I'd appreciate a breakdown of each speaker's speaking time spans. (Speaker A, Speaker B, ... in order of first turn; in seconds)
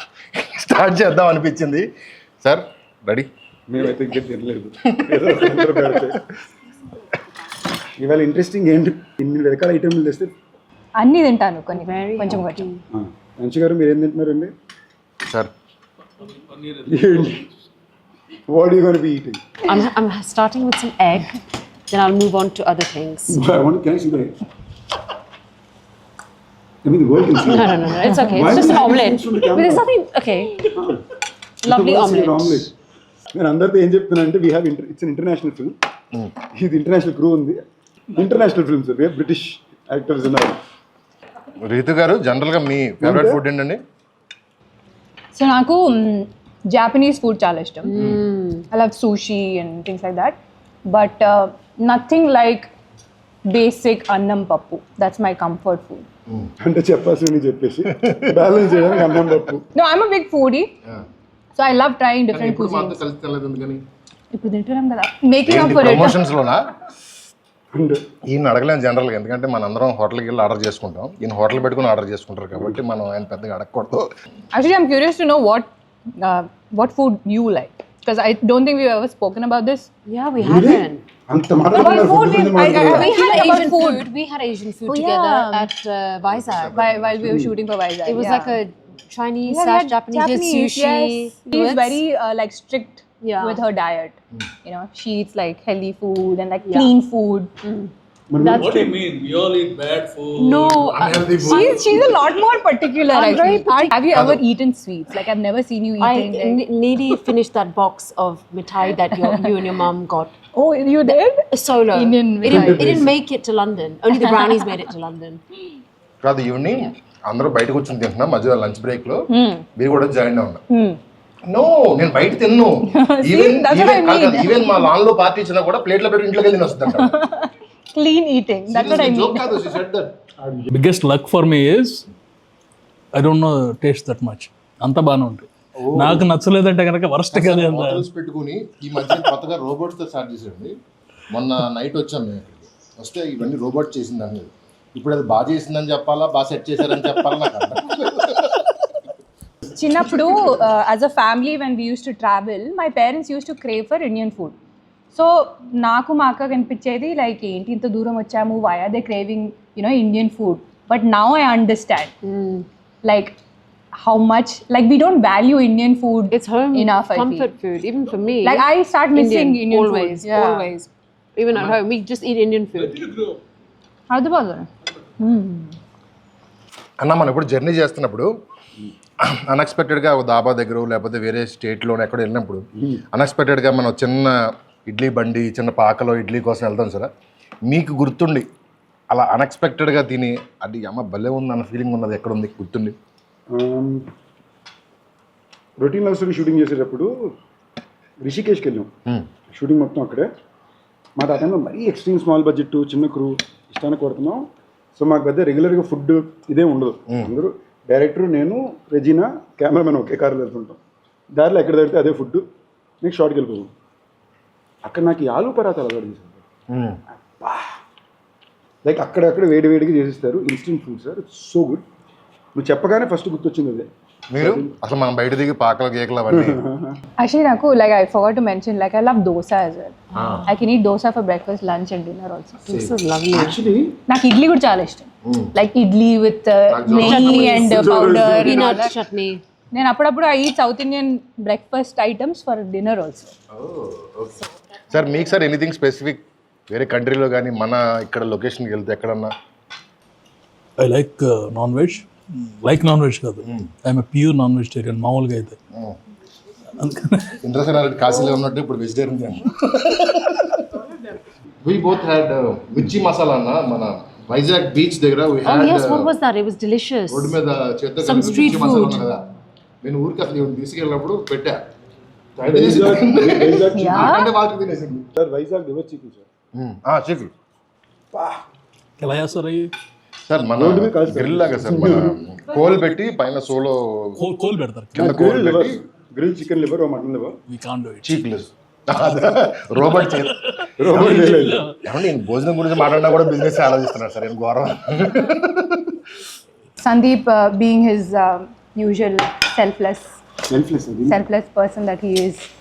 Speaker A: 0.3-1.9, 2.4-3.3, 4.9-6.2, 15.3-15.5, 41.6-43.8, 58.0-58.4, 62.3-63.8, 65.5-66.7, 68.2-74.1, 86.4-87.5, 100.9-102.1, 104.1-104.4, 116.2-120.6, 121.5-127.2, 128.7-130.1, 135.8-136.3, 137.3-140.8, 141.3-148.7, 177.0-178.3, 179.2-187.1, 187.7-188.5, 189.1-193.0, 216.7-217.0, 224.3-226.6, 230.2-230.4, 232.7-232.9, 235.2-235.5, 236.7-237.5, 243.5-249.3, 257.4-260.7, 261.6-266.1, 267.1-269.2, 269.8-271.7, 272.4-275.0, 276.6-277.3, 280.3-284.2, 285.0-285.8, 288.0-290.4, 291.0-291.2, 291.8-296.0
Speaker B: 3.7-6.2, 8.0-10.3, 12.9-14.5, 16.9-17.5, 18.5-19.4, 23.3-24.4, 26.8-29.9, 30.8-31.1, 31.6-32.7, 33.3-35.8, 36.5-37.6, 38.1-40.6, 43.0-43.4, 56.6-59.6, 67.7-68.1, 80.4-83.1, 98.3-99.0, 112.5-113.2, 130.4-130.7, 182.8-183.0, 193.5-194.1, 195.8-197.1, 198.2-198.9, 199.5-200.3, 201.2-210.8, 211.3-212.4, 213.0-213.7, 214.8-216.4, 217.3-217.8, 218.8-221.8, 222.6-224.7, 226.3-227.0, 233.3-234.0, 237.6-238.8, 272.4-274.3, 275.0-276.3, 278.1-278.4, 280.6-282.2, 284.9-287.4, 290.8-291.6, 300.5-301.2
Speaker C: 11.0-12.7, 45.3-48.0, 48.7-52.7, 53.5-56.0, 59.7-60.7, 61.6-63.0, 64.3-66.2, 74.5-79.9, 81.7-84.1, 84.9-85.7, 86.7-88.6, 89.5-97.5, 101.4-106.6, 109.2-109.5, 110.5-113.0, 114.2-114.7, 119.3-119.7, 120.7-121.0, 122.9-124.9, 126.9-129.8, 149.8-154.6, 155.1-162.2, 163.0-163.4, 163.9-167.5, 168.4-170.8, 174.1-175.8, 227.2-232.6, 234.1-239.0, 239.7-243.3, 273.8-274.3, 296.8-300.2, 301.1-302.5
Speaker D: 11.7-12.8, 19.6-23.4, 27.3-30.7, 31.6-32.7, 47.9-48.7, 80.1-81.0, 82.6-86.8, 88.0-92.0, 93.2-93.6, 96.6-96.9, 97.6-98.9, 100.4-102.1, 103.1-104.1, 106.0-110.4, 111.1-115.4, 162.2-162.7, 166.3-173.1, 230.2-230.4, 232.7-233.6, 236.9-239.4, 265.4-267.4, 268.0-269.1
Speaker E: 16.2-17.4, 98.5-101.9, 130.7-132.1, 133.1-138.1, 172.8-173.4, 250.8-255.6, 256.8-257.4, 279.0-279.7, 284.2-285.2, 287.5-288.2, 289.8-291.8